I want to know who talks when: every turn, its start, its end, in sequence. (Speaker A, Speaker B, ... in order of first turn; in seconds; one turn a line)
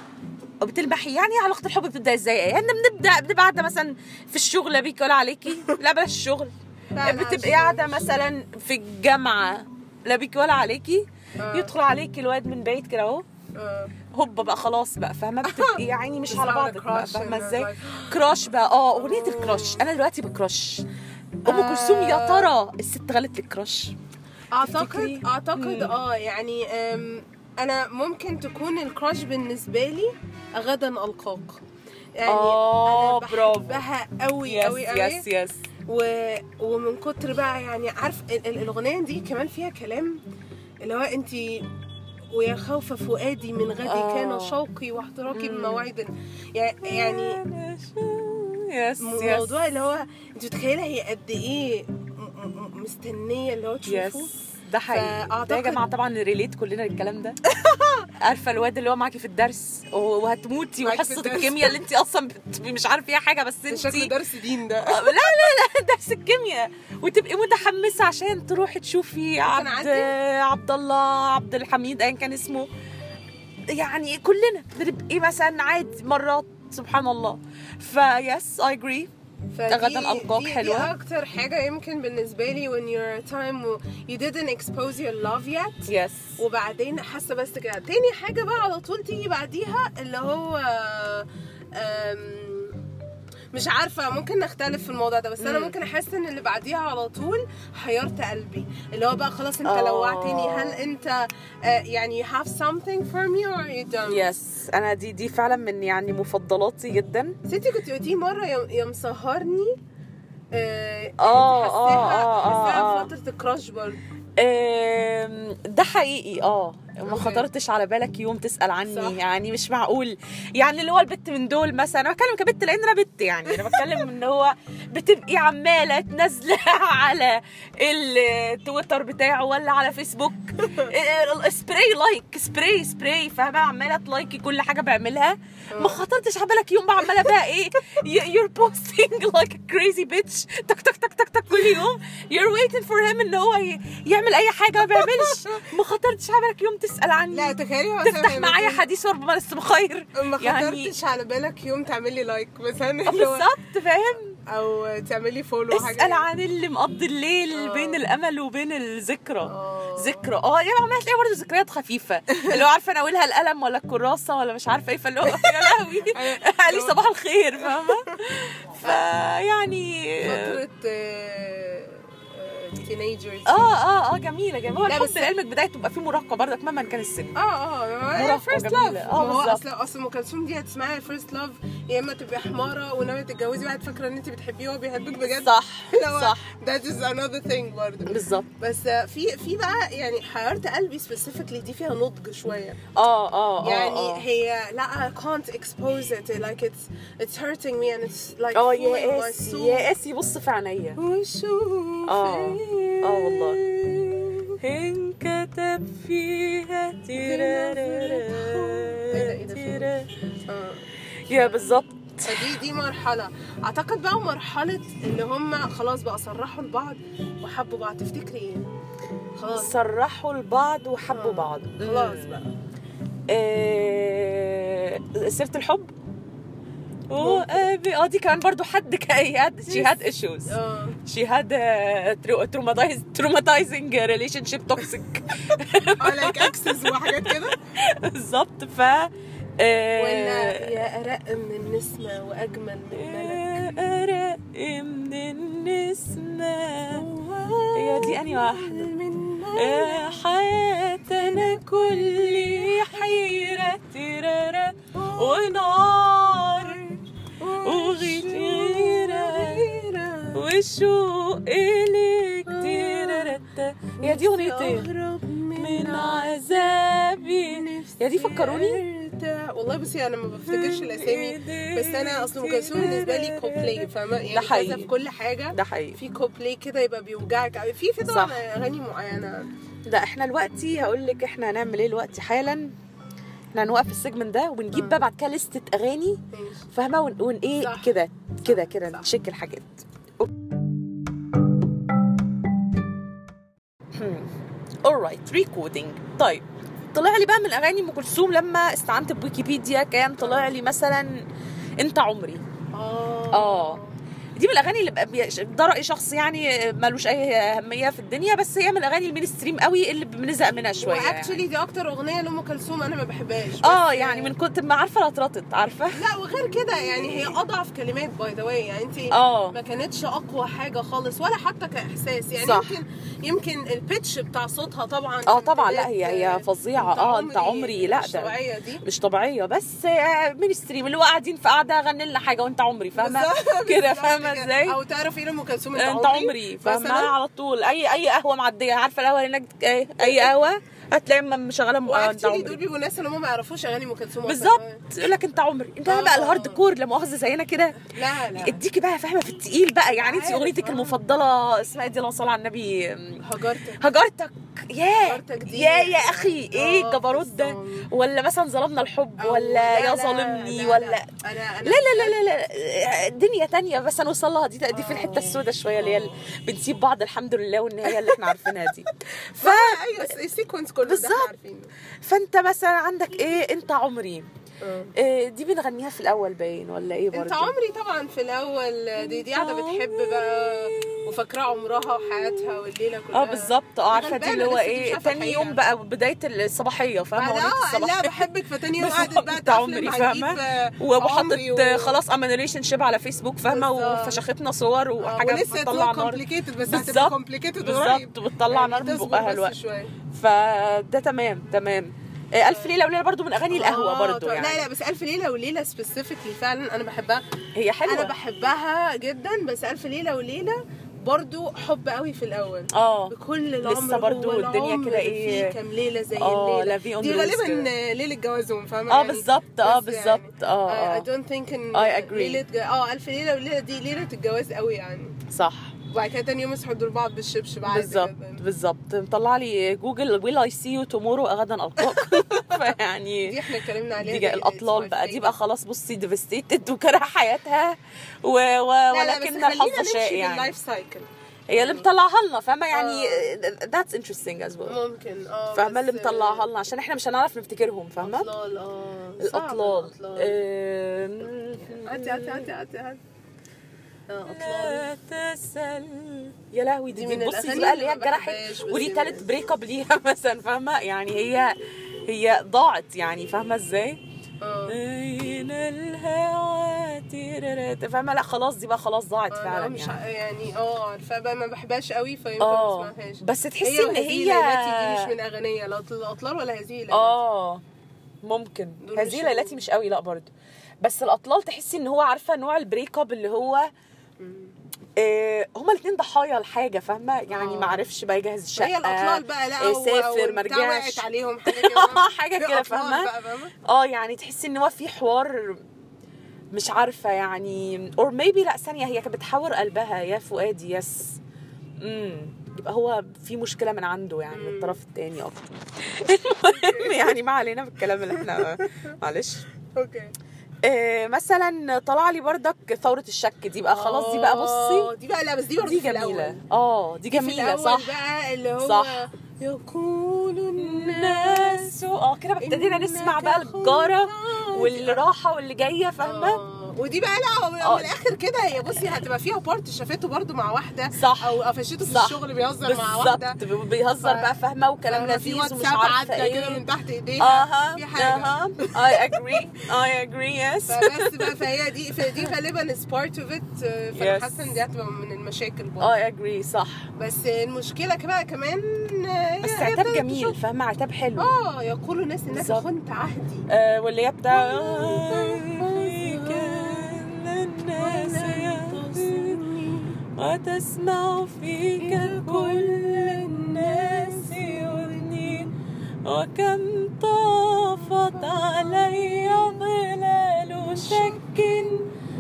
Speaker A: 0.6-13.2
Speaker B: 7.0-8.2
Speaker B: 11.4-11.7
Speaker B: 13.5-13.9
Speaker A: 14.1-20.9
Speaker B: 15.4-18.2
Speaker B: 19.0-19.9
Speaker A: 21.4-23.9
Speaker B: 21.4-22.5
Speaker B: 24.5-31.6
Speaker A: 24.6-26.0
Speaker B: 32.2-35.2
Speaker A: 32.3-33.8
Speaker A: 34.4-35.6
Speaker B: 35.9-40.2
Speaker B: 40.8-41.7
Speaker B: 42.3-47.4
Speaker A: 43.8-44.6
Speaker A: 45.3-45.9
Speaker A: 46.9-49.6
Speaker B: 49.0-54.3
Speaker A: 53.9-57.4
Speaker B: 54.9-55.8
Speaker B: 57.5-58.0
Speaker A: 58.2-64.1
Speaker B: 60.8-61.8
Speaker B: 63.7-65.3
Speaker A: 64.9-72.7
Speaker B: 69.5-70.1
Speaker A: 73.7-79.1
Speaker B: 79.5-92.8
Speaker A: 79.7-80.9
Speaker A: 85.9-86.4
Speaker B: 93.5-104.3
Speaker A: 95.4-95.8
Speaker A: 99.7-100.8
Speaker A: 104.1-107.3
Speaker B: 107.5-109.8
Speaker B: 110.5-114.0
Speaker A: 111.2-113.1
Speaker A: 114.4-150.9
Speaker B: 117.1-117.5
Speaker B: 118.9-119.2
Speaker B: 123.5-124.0
Speaker B: 135.7-136.0
Speaker B: 141.5-141.8
Speaker B: 144.9-145.7
Speaker B: 147.3-148.8
Speaker B: 150.2-153.5
Speaker A: 153.1-154.4
Speaker B: 154.5-156.3
Speaker A: 155.7-170.6
Speaker B: 157.6-158.0
Speaker B: 159.4-160.3
Speaker B: 165.3-167.0
Speaker B: 167.6-168.2
Speaker B: 170.2-173.8
Speaker A: 173.5-177.4
Speaker B: 174.9-175.3
Speaker B: 177.3-192.8
Speaker A: 178.1-179.6
Speaker A: 185.3-186.5
Speaker A: 188.1-188.5
Speaker A: 193.0-194.2
Speaker B: 193.6-199.9
Speaker A: 198.5-201.0
Speaker B: 201.0-204.6
Speaker A: 202.1-203.6
Speaker A: 204.6-210.1
Speaker B: 207.1-209.9
Speaker B: 210.5-211.7
Speaker A: 211.3-212.5
Speaker B: 212.2-218.7
Speaker B: 219.4-219.7
Speaker A: 219.5-222.4
Speaker B: 221.1-222.5
Speaker A: 223.3-225.9
Speaker A: 227.1-240.8
Speaker B: 227.1-227.7
Speaker B: 229.7-231.0
Speaker B: 236.0-237.6
Speaker B: 239.9-243.7
Speaker A: 242.9-247.1
Speaker B: 246.9-250.2
Speaker A: 247.8-248.9
Speaker A: 249.6-257.0
Speaker B: 251.2-253.1
Speaker B: 254.9-255.8
Speaker B: 257.4-260.4
Speaker A: 257.6-259.8
Speaker A: 260.4-264.9
Speaker B: 262.5-263.4
Speaker B: 264.0-266.7
Speaker A: 265.6-268.8
Speaker B: 267.4-279.5
Speaker A: 270.5-274.9
Speaker A: 275.5-276.0
Speaker A: 278.1-278.4
Speaker A: 279.9-282.7
Speaker A: 283.5-286.2
Speaker B: 284.7-285.0
Speaker B: 286.3-286.7
Speaker A: 286.7-290.3
Speaker B: 287.6-289.1
Speaker A: 293.9-294.3
Speaker A: 294.8-301.2
Speaker B: 300.2-300.5
Speaker A: 301.8-302.4
Speaker B: 302.7-303.9
Speaker A: 303.3-303.8
Speaker A: 304.4-311.4
Speaker B: 310.8-314.4
Speaker A: 313.6-316.0
Speaker B: 315.9-328.8
Speaker A: 316.9-317.4
Speaker A: 319.1-319.6
Speaker A: 322.4-322.8
Speaker A: 325.3-334.8
Speaker B: 333.0-337.1
Speaker A: 335.8-342.6
Speaker B: 340.0-340.3
Speaker B: 341.9-344.9
Speaker A: 344.3-347.8
Speaker B: 345.9-346.6
Speaker B: 347.8-348.6
Speaker A: 348.4-353.2
Speaker B: 349.9-351.0
Speaker B: 353.2-353.9
Speaker A: 353.8-361.1
Speaker B: 355.0-357.9
Speaker B: 359.2-362.2
Speaker A: 361.6-370.1
Speaker B: 364.7-366.1
Speaker B: 367.9-368.6
Speaker B: 369.4-371.7
Speaker A: 370.9-371.3
Speaker A: 372.0-374.3
Speaker B: 374.6-374.9
Speaker A: 375.0-377.5
Speaker B: 377.1-385.6
Speaker A: 379.0-381.1
Speaker A: 383.1-388.3
Speaker B: 387.2-392.0
Speaker A: 388.8-399.5
Speaker B: 393.5-394.2
Speaker B: 395.0-399.9
Speaker A: 400.1-404.6
Speaker B: 403.5-407.2
Speaker A: 407.6-408.1
Speaker B: 407.9-425.1
Speaker A: 412.7-415.5
Speaker A: 416.1-417.7
Speaker A: 418.9-421.1
Speaker A: 421.7-422.4
Speaker A: 425.3-425.7
Speaker B: 425.9-428.4
Speaker A: 427.6-433.4
Speaker B: 431.9-432.5
Speaker B: 433.2-435.4
Speaker A: 434.0-440.5
Speaker B: 438.9-441.9
Speaker A: 441.5-444.8
Speaker B: 442.7-443.3
Speaker B: 444.6-446.5
Speaker A: 445.5-448.3
Speaker B: 448.0-450.4
Speaker A: 449.2-452.5
Speaker B: 451.9-453.0
Speaker B: 454.1-454.9
Speaker A: 454.3-461.6
Speaker B: 456.9-459.4
Speaker A: 462.1-464.0
Speaker B: 464.4-464.8
Speaker A: 464.7-470.0
Speaker B: 469.3-477.2
Speaker A: 472.4-475.1
Speaker A: 476.9-477.6
Speaker A: 478.2-480.3
Speaker B: 478.8-479.6
Speaker A: 480.8-483.7
Speaker B: 484.2-484.5
Speaker A: 485.0-493.1
Speaker B: 487.3-487.8
Speaker B: 488.6-493.5
Speaker A: 493.7-495.6
Speaker A: 496.5-501.2
Speaker A: 501.8-509.4
Speaker B: 504.3-504.8
Speaker B: 506.4-507.1
Speaker B: 508.1-508.7
Speaker B: 509.8-510.1
Speaker A: 510.6-514.9
Speaker B: 513.7-516.4
Speaker A: 515.6-518.0
Speaker B: 517.1-521.7
Speaker A: 518.6-519.0
Speaker A: 520.6-526.4
Speaker B: 522.4-525.0
Speaker B: 526.0-533.4
Speaker A: 527.6-528.0
Speaker A: 530.9-536.6
Speaker B: 534.0-534.3
Speaker B: 534.9-539.1
Speaker A: 537.2-541.3
Speaker B: 540.7-545.9
Speaker A: 544.0-544.5
Speaker A: 545.8-546.9
Speaker B: 547.0-550.4
Speaker A: 549.4-551.3
Speaker B: 551.2-553.5
Speaker A: 552.3-552.7
Speaker A: 553.5-559.4
Speaker B: 554.3-557.0
Speaker B: 557.8-560.0
Speaker A: 560.2-565.5
Speaker B: 561.8-565.5
Speaker A: 566.0-571.9
Speaker B: 568.0-569.6
Speaker B: 570.7-571.2